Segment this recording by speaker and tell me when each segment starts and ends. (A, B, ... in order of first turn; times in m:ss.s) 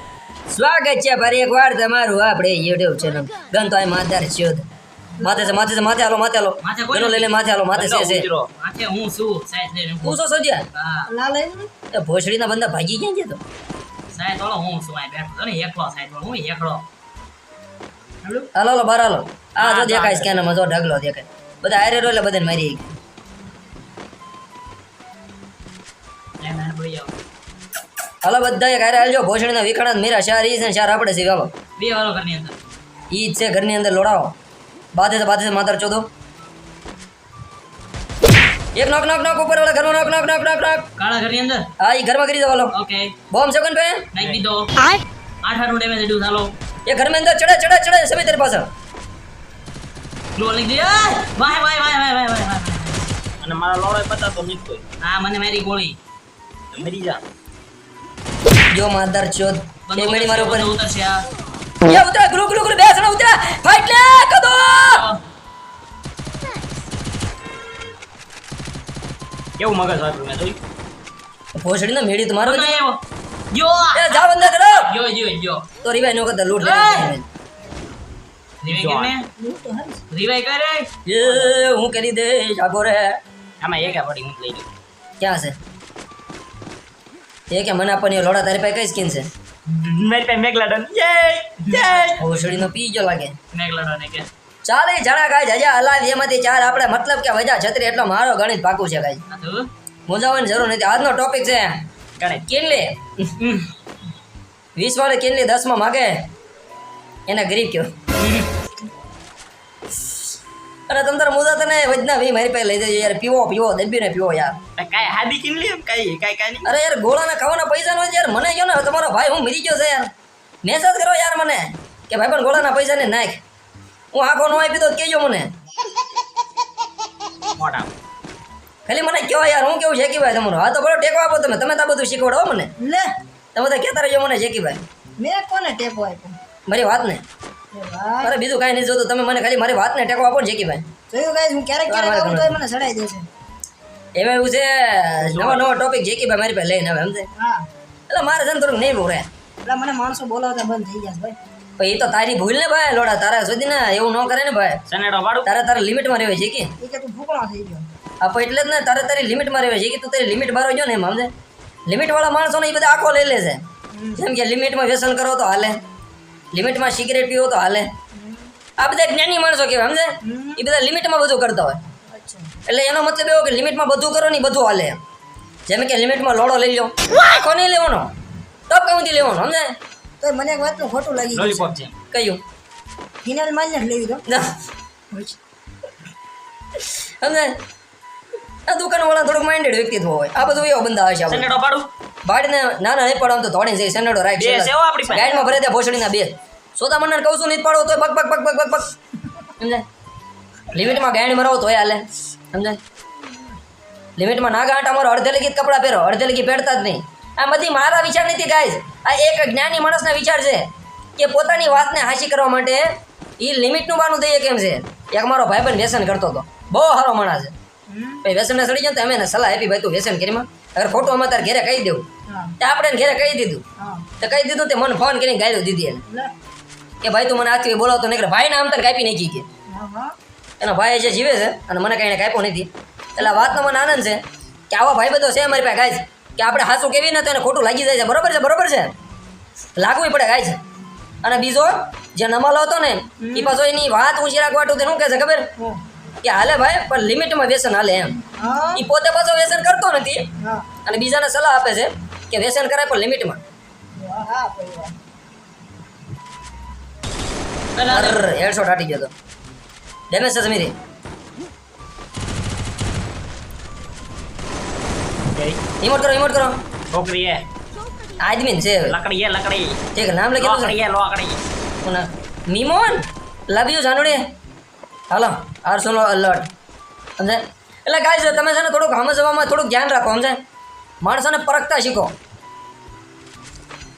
0:00.5-0:04.7 A
0:05.2-0:05.7 B
0:05.2-0:08.3 A
0:06.6-0:07.4 C
0:07.7-0:08.5 D
0:08.6-0:10.2 C
0:10.0-0:10.7 A
0:10.7-0:11.1 C
0:11.1-0:11.7 B
0:11.9-0:13.4 A
0:14.1-0:16.8 C
0:18.2-0:18.5 C
0:18.6-0:22.9 A
0:19.6-0:20.3 C
0:26.4-0:27.1 C
0:28.2-0:31.5 A
0:31.8-0:32.6 C
0:33.1-0:34.3 A
0:34.9-0:36.1 A
0:38.8-0:40.9 A
0:41.0-0:41.7 C
0:41.8-0:42.8 A
0:42.7-0:43.2 C
0:43.3-0:44.1 A
0:44.1-0:44.8 C
0:45.4-0:46.5 C
0:46.9-0:48.7 A
0:50.4-0:53.1 C
0:53.4-0:54.8 D
0:55.0-0:56.0 C
0:56.7-0:57.2 D
0:58.7-1:00.7 A
0:59.9-1:01.2 C
1:01.8-1:05.0 A
1:04.9-1:05.2 C
1:09.6-1:10.6 D
1:11.6-1:12.8 A
1:12.4-1:13.0 C
1:13.5-1:15.7 C
1:13.9-1:14.9 A
1:15.8-1:17.3 A
1:16.6-1:17.1 C
1:18.6-1:19.3 C
1:18.6-1:19.1 D
1:19.4-1:20.0 B
1:20.1-1:20.9 C
1:21.1-1:23.2 A
1:23.6-1:24.7 D
1:25.2-1:25.6 A
1:27.5-1:29.3 A
1:29.7-1:32.2 D
1:31.7-1:32.5 C
1:32.2-1:33.4 A
1:33.5-1:34.3 C
1:34.6-1:39.2 A
1:39.3-1:39.7 C
1:40.1-1:41.8 A
1:42.2-1:42.5 D
1:42.5-1:43.3 A
1:43.4-1:43.7 C
1:44.8-1:46.2 A
1:47.3-1:47.9 A
1:48.2-1:48.5 C
1:50.9-1:54.6 A
1:54.8-1:56.7 D
1:56.6-2:00.1 A
2:00.6-2:03.4 A
2:04.1-2:05.5 A
2:07.6-2:07.9 D
2:08.9-2:12.7 A
2:12.8-2:13.1 B
2:13.6-2:14.8 A
2:15.2-2:16.4 B
2:16.7-2:17.2 A
2:17.7-2:18.3 B
2:18.2-2:20.8 A
2:21.1-2:23.3 B
2:21.9-2:22.6 A
2:24.2-2:27.3 A
2:25.2-2:25.8 D
2:27.4-2:27.7 B
2:28.1-2:29.3 A
2:29.6-2:31.4 B
2:31.8-2:34.8 A
2:34.9-2:35.5 D
2:35.4-2:36.7 A
2:36.8-2:37.8 B
2:38.2-2:41.3 A
2:41.9-2:43.6 A
2:43.9-2:44.3 B
2:44.2-2:45.8 A
2:46.5-2:47.9 A
2:48.1-2:48.5 B
2:48.8-2:51.8 A
2:50.2-2:50.6 B
2:52.1-2:52.6 B
2:52.7-2:55.0 A
2:55.7-2:58.1 A
2:58.7-2:59.8 A
3:00.2-3:01.7 B
3:01.3-3:01.9 D
3:02.1-3:02.4 A
3:03.2-3:04.2 B
3:04.3-3:04.5 A
3:06.8-3:07.5 A
3:08.7-3:11.5 A
3:11.3-3:11.9 D
3:12.3-3:18.9 A
3:14.4-3:15.3 D
3:15.1-3:15.5 B
3:20.7-3:22.8 A
3:24.2-3:32.8 A
3:33.4-3:37.5 A
3:37.9-3:38.3 B
3:38.2-3:42.0 A
3:42.3-3:42.6 B
3:42.6-3:43.6 A
3:43.8-3:44.1 B
3:44.2-3:46.0 A
3:46.1-3:46.3 B
3:47.0-3:49.5 A
3:49.7-3:50.1 B
3:50.6-3:58.9 A
3:53.2-3:53.5 B
3:59.8-4:00.6 A
4:01.2-4:05.5 A
4:03.2-4:03.6 B
4:06.2-4:08.2 A
4:08.4-4:08.8 B
4:08.8-4:10.3 A
4:10.4-4:10.7 B
4:10.8-4:13.4 A
4:14.0-4:14.9 B
4:17.8-4:18.2 C
4:17.9-4:19.1 A
4:20.1-4:20.8 A
4:25.3-4:25.6 D
4:25.8-4:26.6 A
4:26.9-4:27.4 D
4:28.2-4:29.0 A
4:28.8-4:29.8 D
4:30.0-4:30.8 A
4:30.4-4:31.4 D
4:31.8-4:34.2 A
4:35.1-4:36.5 A
4:37.2-4:40.4 A
4:41.0-4:42.1 A